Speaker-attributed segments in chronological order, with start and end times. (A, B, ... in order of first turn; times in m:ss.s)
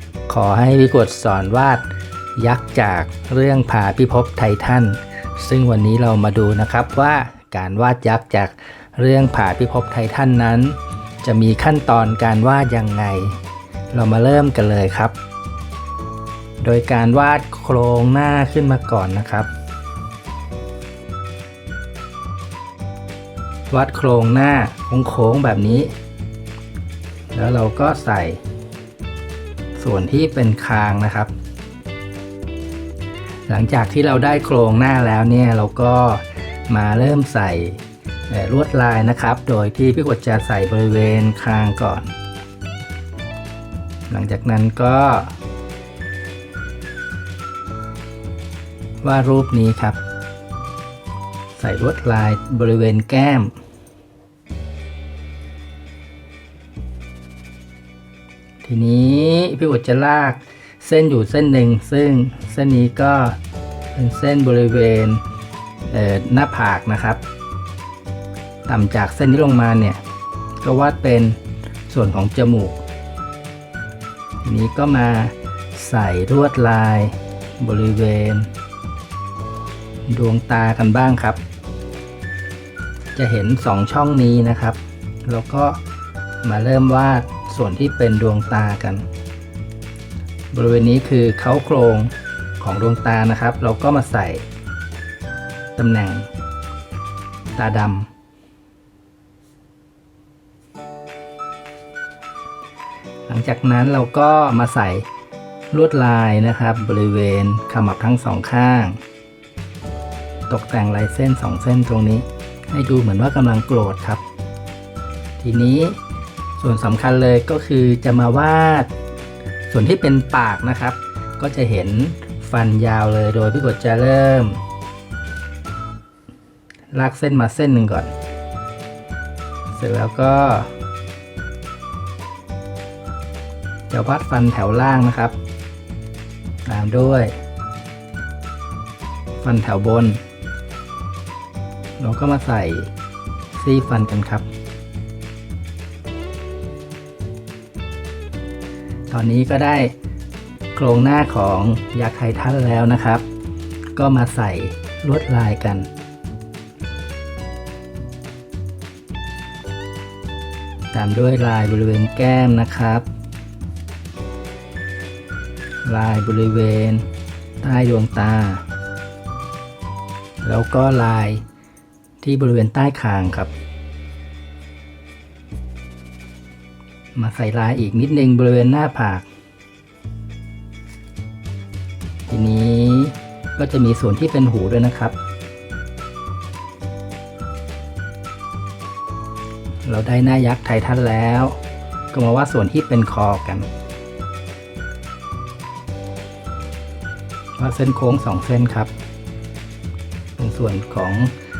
0:00.3-0:13.4 A
0:13.9-0:15.1 A
0:16.6-0:19.5 A
0:23.7-0:25.9 A
0:27.3-0:28.4 A
0:29.7-0:31.3 A
0:33.5-0:42.1 A
0:44.1-0:45.3 A
0:49.0-0:50.0 A
0:51.6-0:53.6 A
0:58.6-1:03.4 A
1:03.9-1:05.2 A
1:05.8-1:07.2 A
1:08.7-1:10.0 A
1:10.6-1:11.4 A
1:11.9-1:12.8 A
1:14.4-1:18.5 A
1:20.1-1:21.4 A
1:23.2-1:25.8 A
1:26.4-1:29.0 A
1:30.5-1:34.4 A
1:35.8-1:36.3 A
1:37.6-1:38.1 A
1:43.3-1:45.1 A
1:45.7-1:49.0 A
1:50.5-1:54.2 A
1:55.4-1:56.0 A
1:56.6-1:58.9 A
1:59.7-2:04.6 A
2:06.9-2:08.1 A
2:09.7-2:10.7 A
2:13.9-2:15.4 A
2:16.6-2:17.3 A
2:19.4-2:20.2 A
2:22.0-2:22.9 A
2:23.5-2:24.5 A
2:29.1-2:29.9 A
2:30.7-2:33.2 A
2:33.9-2:35.9 A
2:40.9-2:43.0 A
2:45.8-2:47.0 A
2:47.6-2:48.6 A
2:50.4-2:51.4 A
2:52.2-2:53.5 A
2:57.1-2:59.2 A
3:02.3-3:05.2 A
3:09.8-3:11.6 A
3:12.1-3:13.7 A
3:17.6-3:18.9 A
3:20.4-3:21.3 A